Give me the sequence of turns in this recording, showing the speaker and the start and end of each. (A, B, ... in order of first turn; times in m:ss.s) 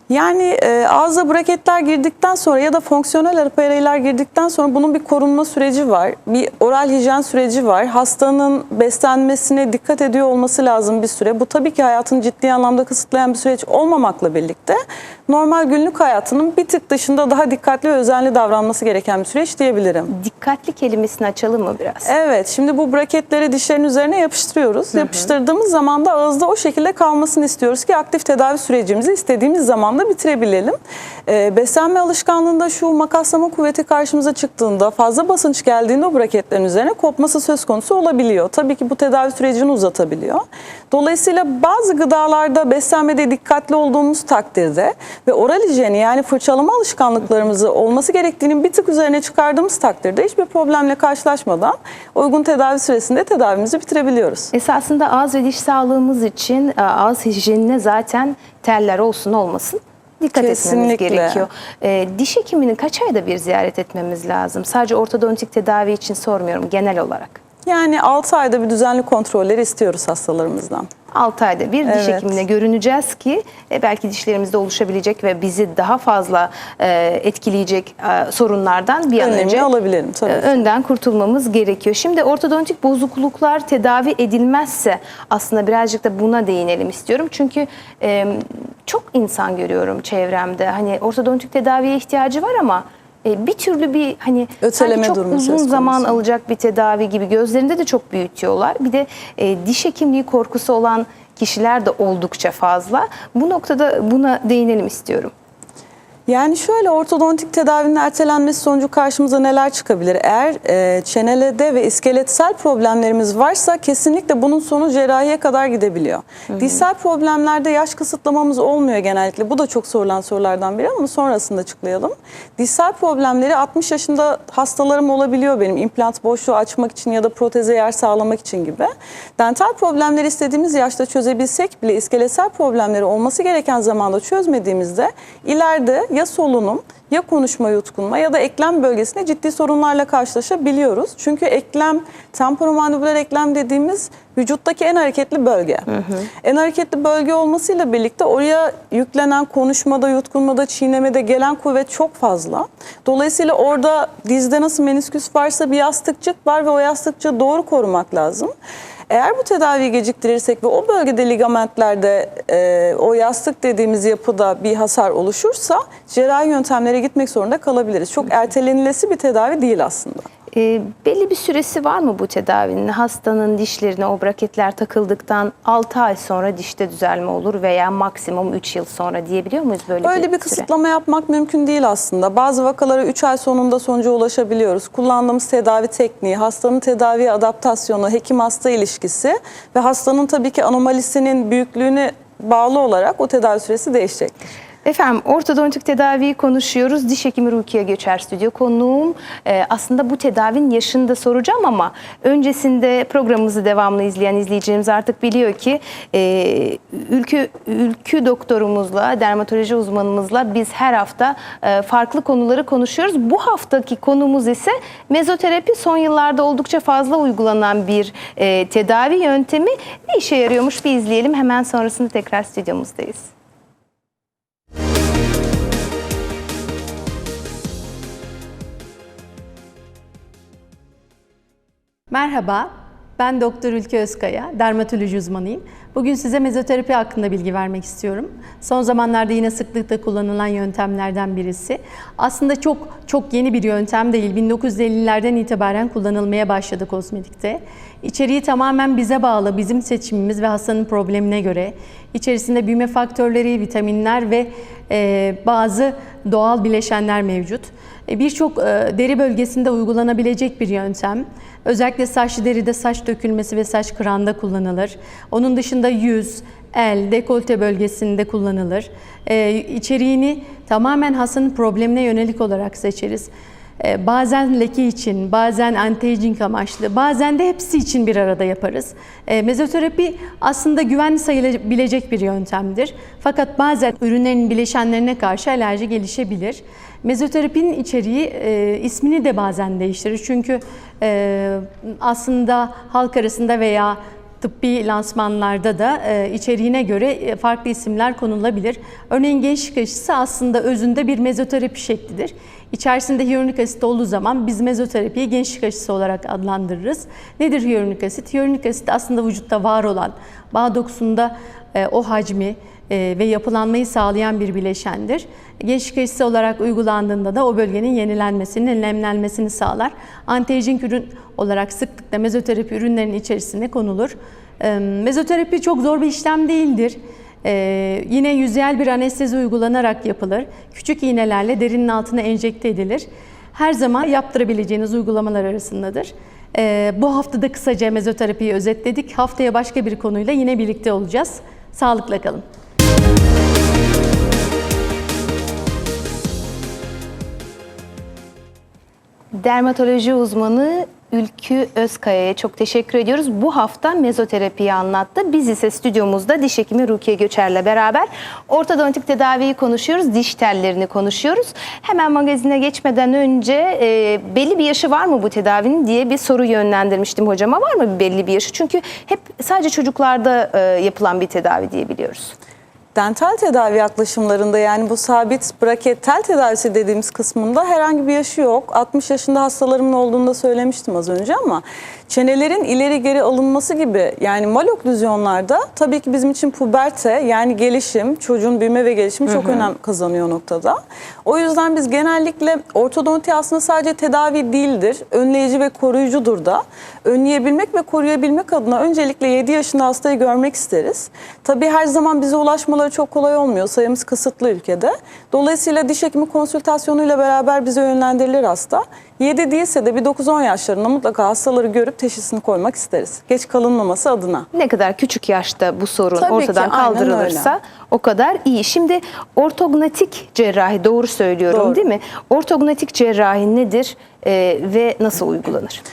0:00.1-0:20.1 A
0:20.1-0:22.1 B
0:22.0-0:54.5 A
0:54.5-1:07.4 B
1:00.3-1:01.4 A
1:07.6-1:10.9 A
1:11.1-1:19.7 B
1:11.8-1:12.3 A
1:19.2-1:20.6 A
1:20.2-1:45.3 B
1:34.6-1:36.2 A
1:46.3-2:25.9 A
2:25.9-2:26.3 B
2:26.4-2:38.5 A
2:39.1-2:50.2 A
2:50.5-3:00.7 B
3:00.0-3:14.4 A
3:14.8-3:43.3 B
3:52.1-5:42.4 C
5:49.3-6:12.3 B
6:12.9-6:54.5 A
6:54.5-7:05.8 B
6:56.2-6:57.5 A
7:01.5-7:01.8 A